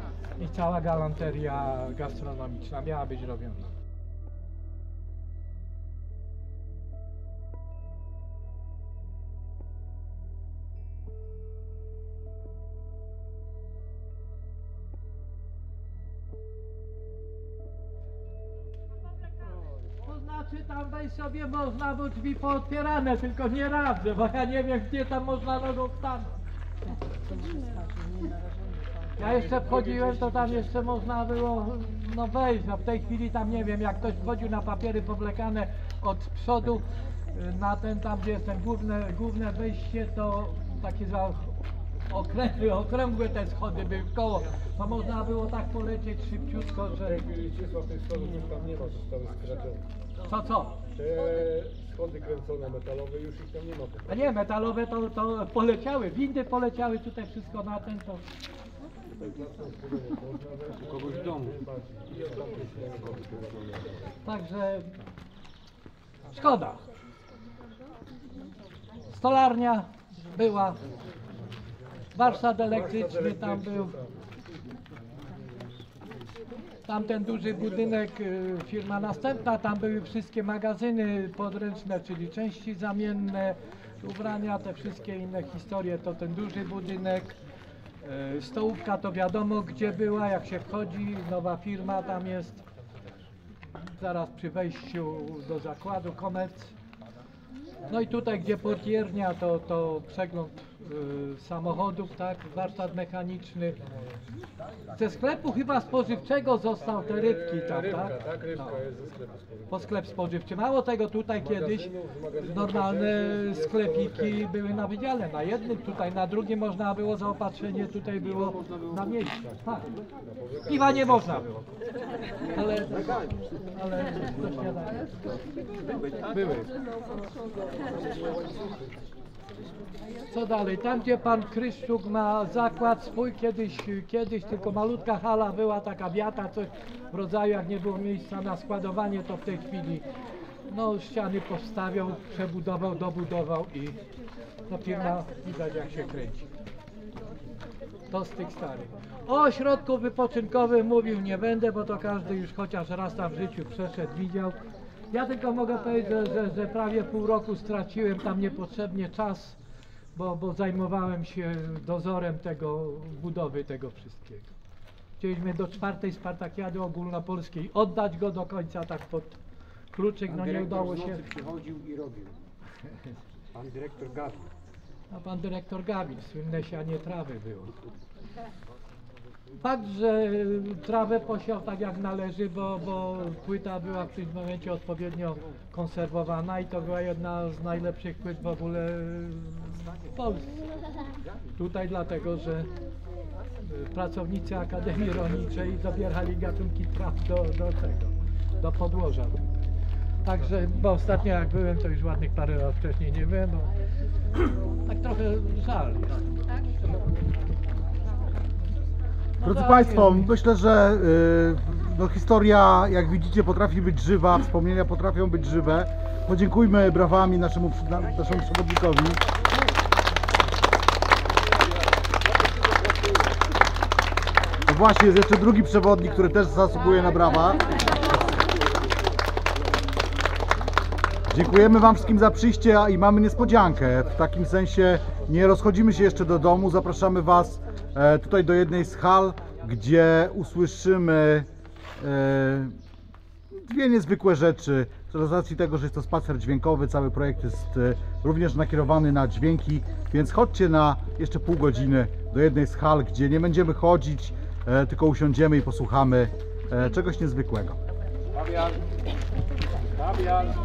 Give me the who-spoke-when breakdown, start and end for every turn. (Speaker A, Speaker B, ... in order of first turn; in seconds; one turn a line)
Speaker A: 0.4-3.7
Speaker A: 20.0-26.3
Speaker A: 29.2-41.5
Speaker B: 29.2-30.4
Speaker A: 42.1-47.2
Speaker B: 47.0-49.8
Speaker A: 50.3-50.8
Speaker B: 50.9-54.1
Speaker A: 54.1-58.2
Speaker B: 59.1-63.9
Speaker A: 64.2-64.9
Speaker A: 66.3-66.8
Speaker A: 69.1-70.8
Speaker A: 72.1-73.9
Speaker B: 72.2-74.2
Speaker A: 76.9-87.3
Speaker A: 88.0-92.6
Speaker A: 94.0-96.7
Speaker A: 97.9-103.8
Speaker A: 104.9-108.8
Speaker B: 106.8-110.0
Speaker A: 109.7-119.9
Speaker B: 111.4-114.5
Speaker B: 120.3-121.6
Speaker A: 120.7-121.5
Speaker A: 122.5-125.2
Speaker A: 126.2-126.7
Speaker A: 130.3-140.0
Speaker A: 140.7-144.0
Speaker A: 144.7-146.4
Speaker A: 148.1-154.6
Speaker A: 155.1-159.6
Speaker A: 160.1-164.5
Speaker A: 165.2-169.4
Speaker A: 169.9-171.3
Speaker C: 170.2-172.3
Speaker C: 173.5-174.5
Speaker A: 175.1-177.7
Speaker A: 179.6-190.6
Speaker A: 191.6-192.7
Speaker A: 193.6-199.6
Speaker A: 200.2-203.7
Speaker A: 204.4-206.2
Speaker A: 209.4-210.3
Speaker D: 209.4-219.2
Speaker D: 224.7-227.8
Speaker D: 231.3-242.8
Speaker D: 243.5-257.8
Speaker B: 258.4-258.7
Speaker B: 260.0-260.5